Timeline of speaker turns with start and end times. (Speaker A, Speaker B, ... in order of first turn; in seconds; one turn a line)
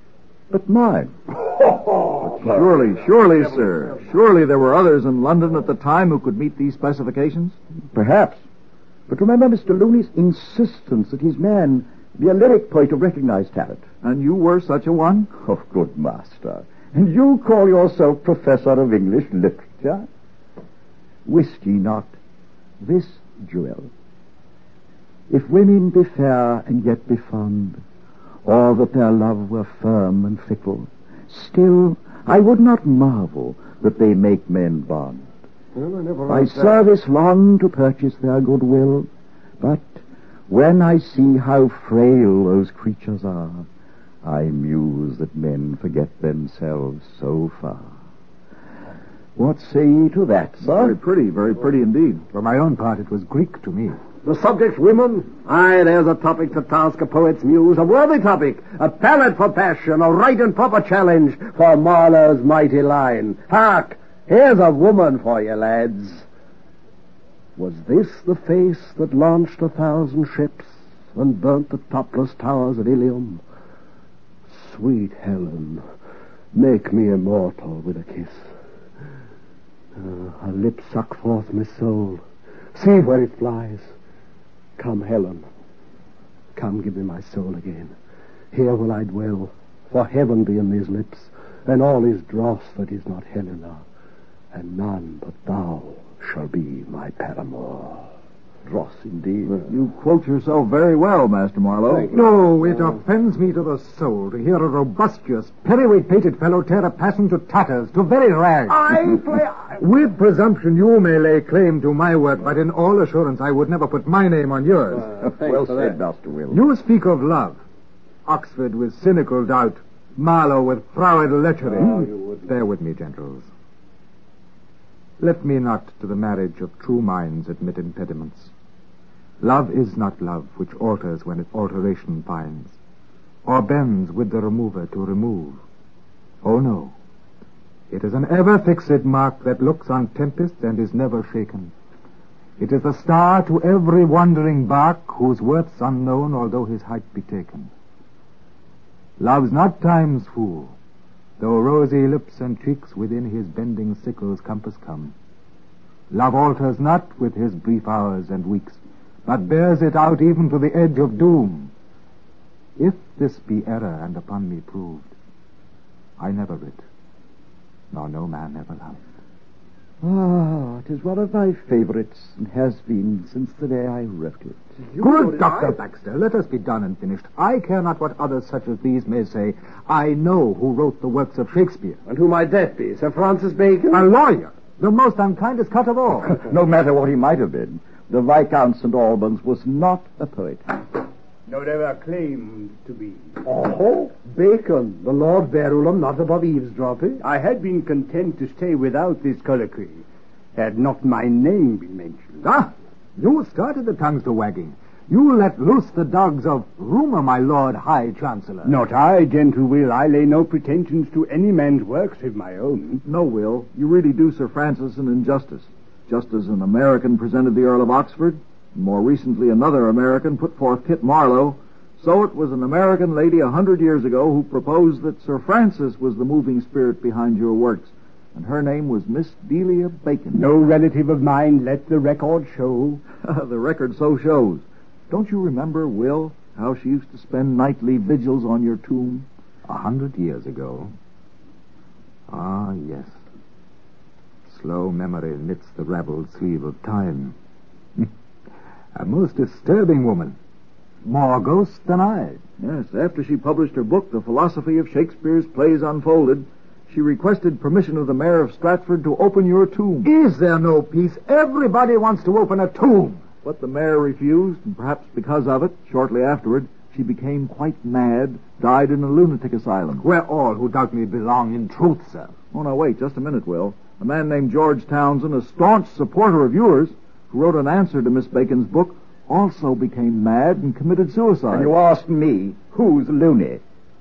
Speaker A: 0.5-2.7
Speaker B: 2.4-7.5
Speaker A: 7.9-8.4
Speaker A: 9.1-13.8
Speaker B: 14.0-15.3
Speaker A: 15.4-20.1
Speaker A: 21.2-22.1
Speaker A: 22.8-23.9
Speaker A: 25.3-27.8
Speaker A: 28.4-35.3
Speaker C: 35.7-36.8
Speaker A: 36.3-39.1
Speaker A: 39.6-43.6
Speaker A: 44.2-47.9
Speaker A: 49.4-51.0
Speaker B: 50.6-52.2
Speaker D: 52.3-54.0
Speaker C: 54.2-66.2
Speaker C: 67.6-73.4
Speaker C: 74.5-75.8
Speaker C: 76.5-78.4
Speaker C: 79.9-82.2
Speaker C: 82.7-83.9
Speaker C: 84.8-85.4
Speaker C: 86.5-87.9
Speaker C: 88.5-93.8
Speaker C: 94.5-98.1
Speaker A: 98.7-99.6
Speaker B: 99.7-102.1
Speaker D: 102.1-115.1
Speaker A: 115.2-116.6
Speaker C: 115.3-115.9
Speaker D: 116.5-117.6
Speaker D: 118.2-123.5
Speaker D: 125.2-128.5
Speaker D: 129.4-132.8
Speaker D: 133.4-135.6
Speaker D: 136.4-136.9
Speaker D: 137.9-141.7
Speaker D: 142.6-147.7
Speaker D: 149.2-150.7
Speaker D: 151.4-155.1
Speaker D: 156.1-161.7
Speaker D: 162.8-165.1
Speaker D: 166.2-166.8
Speaker D: 167.9-169.0
Speaker A: 170.0-174.6
Speaker C: 174.9-175.7
Speaker D: 175.0-182.0
Speaker C: 182.1-184.1
Speaker D: 183.9-186.3
Speaker A: 186.3-190.8
Speaker E: 191.5-193.4
Speaker C: 193.4-197.2
Speaker E: 197.2-200.0
Speaker E: 200.5-202.4
Speaker D: 202.4-208.8
Speaker E: 208.6-213.0
Speaker B: 213.0-230.5
Speaker E: 230.3-233.0
Speaker B: 233.2-239.2
Speaker D: 239.7-240.9
Speaker D: 242.3-243.1
Speaker D: 244.5-247.3
Speaker D: 248.9-250.3
Speaker D: 251.0-252.4
Speaker B: 252.6-260.1
Speaker D: 260.0-263.2
Speaker B: 263.4-270.0
Speaker D: 270.0-272.3
Speaker B: 272.5-281.7
Speaker A: 281.5-283.6